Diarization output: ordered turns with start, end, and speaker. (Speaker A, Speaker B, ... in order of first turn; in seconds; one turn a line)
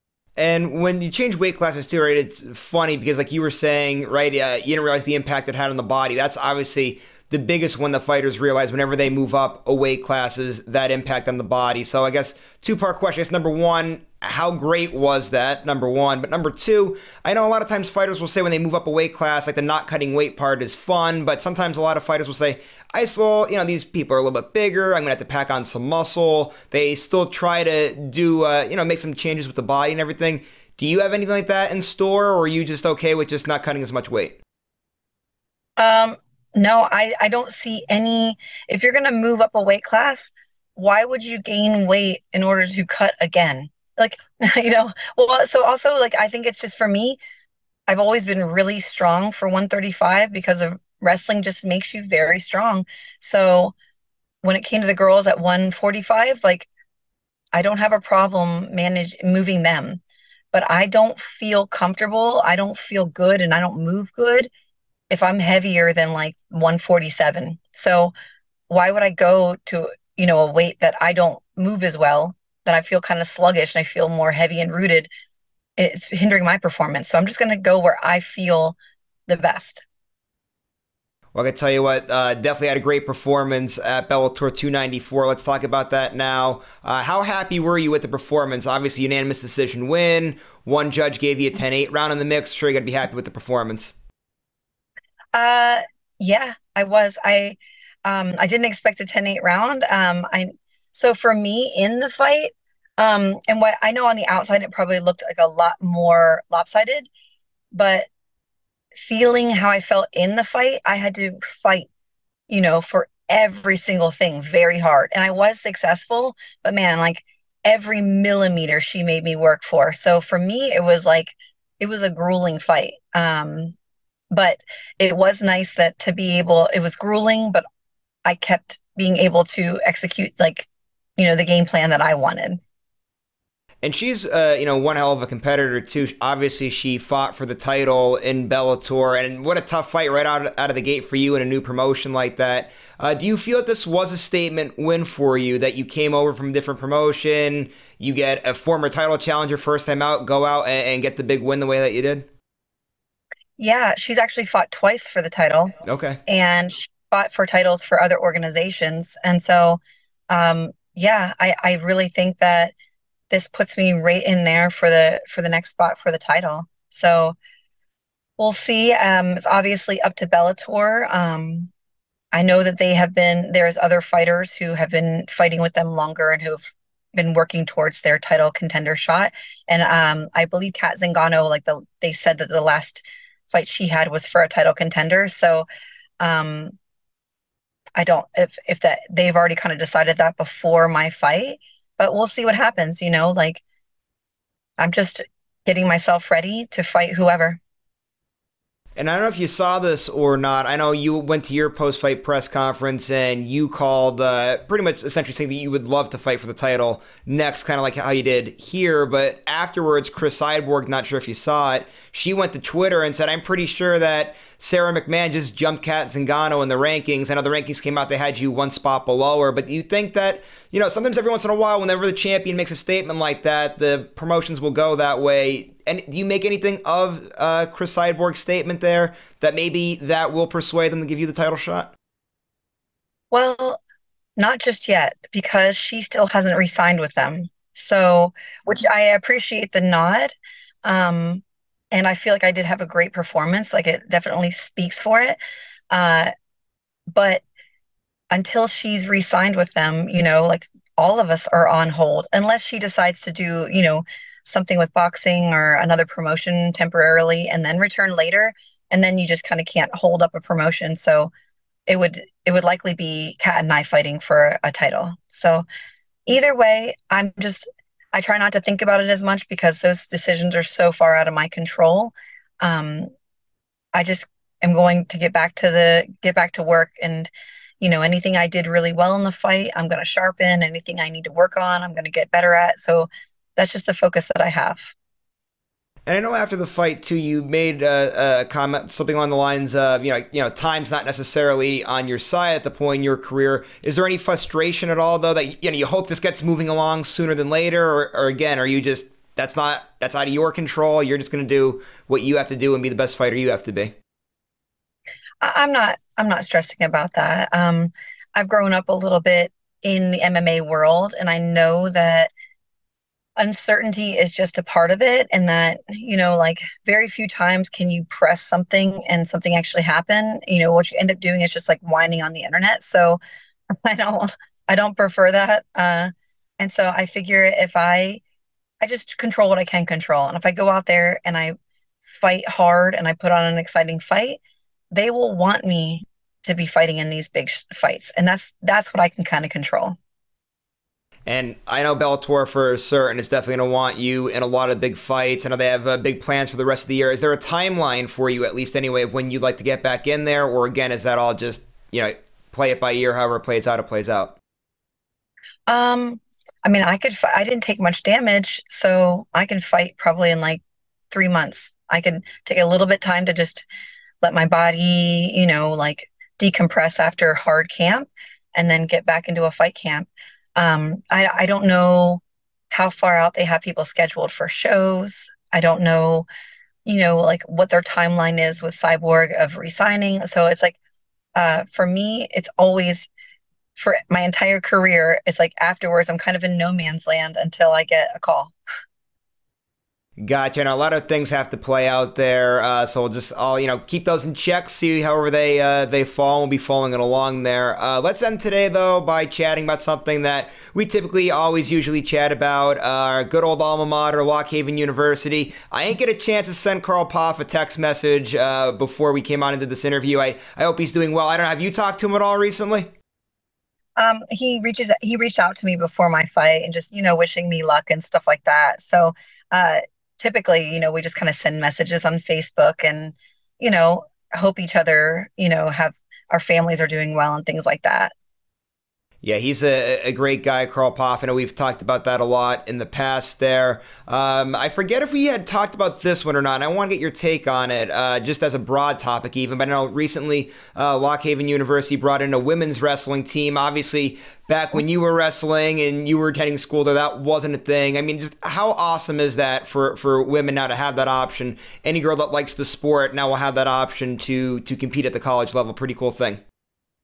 Speaker A: 0.4-34.4
Speaker B: 35.8-47.2
Speaker B: 47.9-53.7
Speaker B: 54.4-56.7
Speaker B: 57.5-60.0
Speaker B: 60.5-64.5
Speaker B: 65.1-68.1
Speaker B: 68.7-75.1
Speaker B: 75.8-79.8
Speaker A: 81.3-93.9
Speaker B: 95.3-107.1
Speaker B: 107.7-108.1
Speaker B: 108.9-111.9
Speaker B: 112.5-123.8
Speaker B: 124.3-127.6
Speaker B: 128.2-132.6
Speaker A: 133.8-152.3
Speaker B: 153.6-155.8
Speaker A: 155.9-156.2
Speaker B: 156.3-162.7
Speaker B: 163.3-167.4
Speaker B: 168.4-171.7
Speaker B: 172.3-176.6
Speaker B: 177.1-185.7
Speaker B: 186.2-186.8
Speaker B: 188.0-193.6
Speaker B: 194.8-197.6
Speaker A: 199.0-231.9
Speaker B: 233.3-233.8
Speaker B: 234.4-245.4
Speaker B: 245.9-246.3
Speaker B: 247.1-247.4
Speaker B: 248.3-261.3
Speaker B: 261.9-265.7
Speaker B: 266.3-273.1
Speaker B: 273.9-284.9
Speaker A: 286.1-303.9
Speaker B: 305.4-312.3
Speaker B: 313.4-323.2
Speaker B: 323.8-328.2
Speaker B: 328.8-334.4
Speaker B: 334.9-340.0
Speaker A: 341.3-354.4
Speaker B: 355.7-363.7
Speaker B: 364.2-376.3
Speaker B: 376.9-380.8
Speaker B: 381.4-383.1
Speaker B: 383.8-388.5
Speaker A: 390.2-412.9
Speaker B: 414.0-428.1
Speaker A: 429.2-456.4